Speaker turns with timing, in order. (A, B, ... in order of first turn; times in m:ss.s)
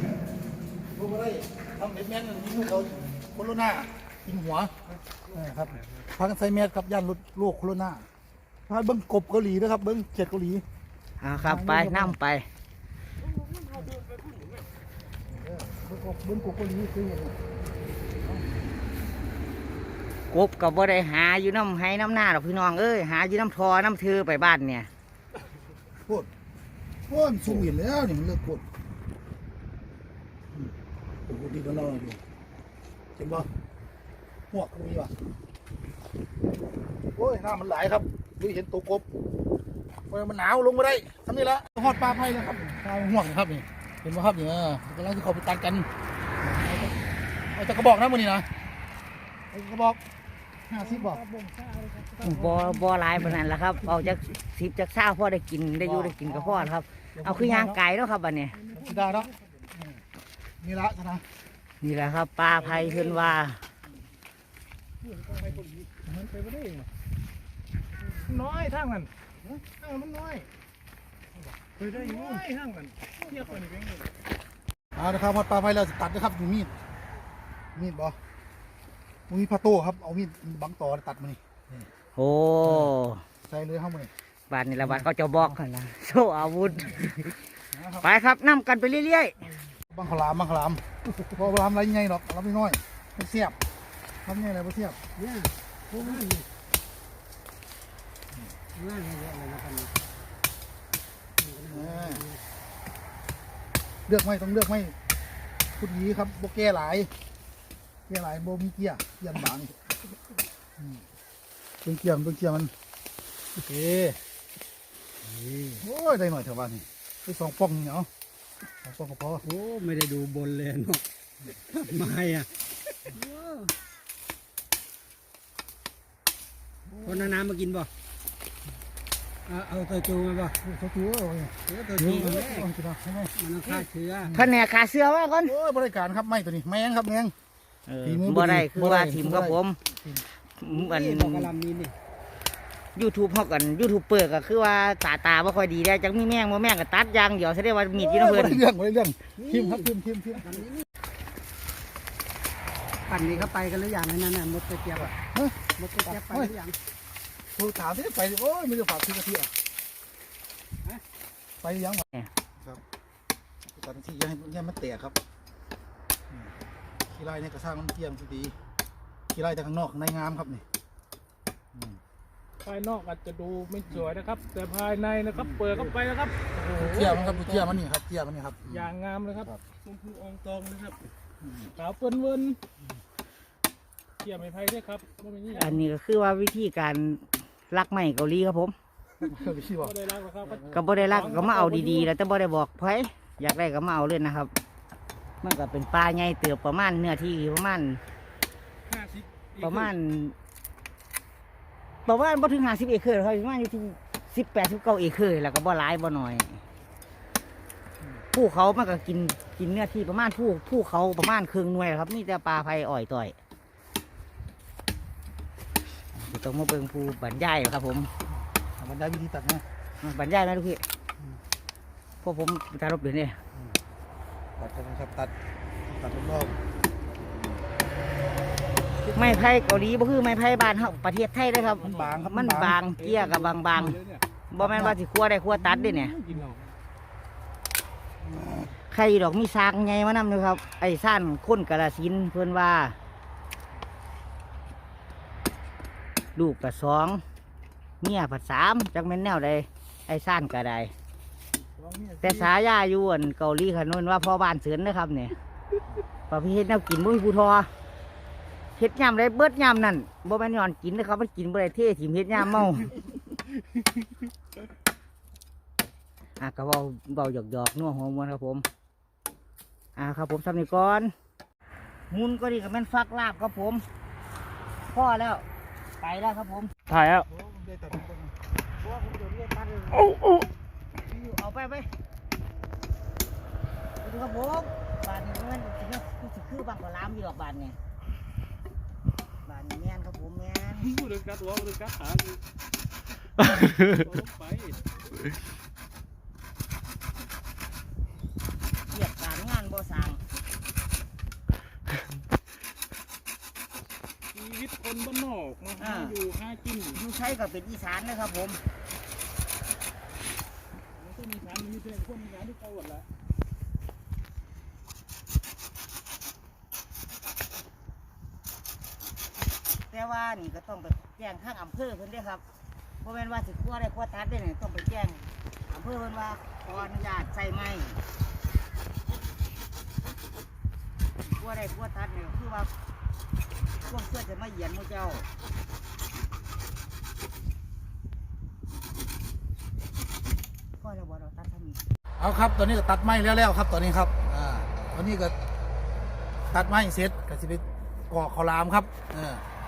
0:00.9-0:04.8 A
0:05.3-0:08.1 A
0:08.7-0:10.6 A
0:11.2-0:12.5 B
0:11.4-0:12.2 A
0:15.3-0:17.4 A
0:20.3-0:24.9 B
0:27.1-0:28.6 A
0:31.3-0:32.2 A
0:33.2-0:33.5 A
0:34.5-0:35.1 A
0:37.2-0:39.0 A
0:40.1-0:45.9 A
0:46.4-0:46.9 A
0:47.5-0:48.5 A
0:49.5-0:50.0 A
0:50.7-0:51.2 A
0:50.8-0:52.8 C
0:52.2-0:58.6 B
0:55.8-0:57.8 A
0:58.6-0:59.3 C
0:58.7-1:00.0 A
1:00.6-1:01.2 A
1:01.8-1:03.6 B
1:02.6-1:03.2 C
1:05.0-1:06.9 C
1:08.2-1:09.1 C
1:09.6-1:10.5 C
1:11.8-1:14.0 C
1:15.0-1:16.8 A
1:17.8-1:18.2 A
1:19.3-1:21.9 A
1:22.2-1:23.2 B
1:23.5-1:24.1 A
1:24.5-1:27.4 B
1:27.7-1:28.1 A
1:28.0-1:29.4 B
1:29.8-1:33.6 A
1:34.2-1:35.0 A
1:35.2-1:36.5 D
1:38.8-1:39.9 D
1:41.4-1:42.4 D
1:41.7-1:42.3 A
1:44.1-1:45.0 A
1:45.8-1:47.1 A
1:48.1-1:49.8 A
1:51.8-1:52.7 A
1:53.6-1:54.2 A
1:55.8-1:58.1 A
1:58.8-1:59.4 A
1:59.5-2:01.0 D
2:01.7-2:02.5 D
2:03.1-2:03.7 D
2:07.0-2:07.9 D
2:09.5-2:10.6 D
2:10.6-2:13.3 A
2:11.7-2:12.7 D
2:13.3-2:14.3 D
2:14.3-2:15.5 B
2:15.5-2:17.3 A
2:17.9-2:19.8 B
2:18.0-2:20.2 A
2:20.6-2:21.5 B
2:20.8-2:22.0 D
2:23.0-2:28.7 B
2:28.0-2:30.7 A
2:29.4-2:29.9 D
2:30.5-2:30.8 D
2:33.1-2:35.1 D
2:35.0-2:35.6 A
2:35.8-2:36.8 D
2:36.1-2:36.5 A
2:37.6-2:39.5 A
2:41.6-2:42.1 A
2:43.7-2:45.2 A
2:47.1-2:48.5 A
2:49.3-2:50.6 A
2:51.7-2:52.0 A
2:52.6-2:57.7 C
2:55.4-2:55.8 A
2:56.6-2:58.8 A
2:58.7-3:01.0 C
3:01.4-3:01.7 A
3:01.8-3:02.6 C
3:04.2-3:05.8 C
3:05.5-3:08.8 B
3:09.2-3:10.0 A
3:09.8-3:12.1 C
3:10.6-3:14.5 B
3:15.4-3:18.0 B
3:18.8-3:19.9 C
3:19.6-3:20.3 B
3:22.1-3:26.6 B
3:28.3-3:33.4 B
3:36.1-3:38.1 B
3:38.8-3:39.6 A
3:40.0-3:40.8 B
3:42.2-3:43.4 B
3:44.6-3:45.3 A
3:45.8-3:46.6 A
3:49.1-3:54.0 B
3:51.8-3:52.2 C
3:51.8-3:52.8 A
3:52.9-3:54.2 C
3:54.5-3:56.2 B
3:54.6-3:55.0 A
3:55.7-3:56.7 C
3:58.9-4:03.0 B
4:06.4-4:07.2 B
4:08.0-4:10.9 B
4:11.6-4:12.5 A
4:12.2-4:15.4 B
4:16.3-4:17.7 B
4:18.8-4:22.9 B
4:26.4-4:28.6 B
4:30.0-4:31.1 B
4:32.1-4:33.8 B
4:34.9-4:35.4 B
4:36.0-4:36.7 B
4:37.1-4:38.3 A
4:38.8-4:40.2 B
4:41.0-4:41.9 B
4:44.0-4:47.8 B
4:49.4-4:50.9 B
4:50.8-4:52.4 C
4:53.8-4:54.8 C
4:58.9-5:00.2 B
5:04.3-5:07.0 C
5:05.8-5:06.2 B
5:06.9-5:08.6 B
5:11.0-5:13.1 C
5:19.9-5:22.4 B
5:23.0-5:28.0 B
5:31.2-5:32.7 B
5:33.8-5:35.3 B
5:40.8-5:41.8 B
5:42.2-5:45.4 A
5:46.5-5:49.4 A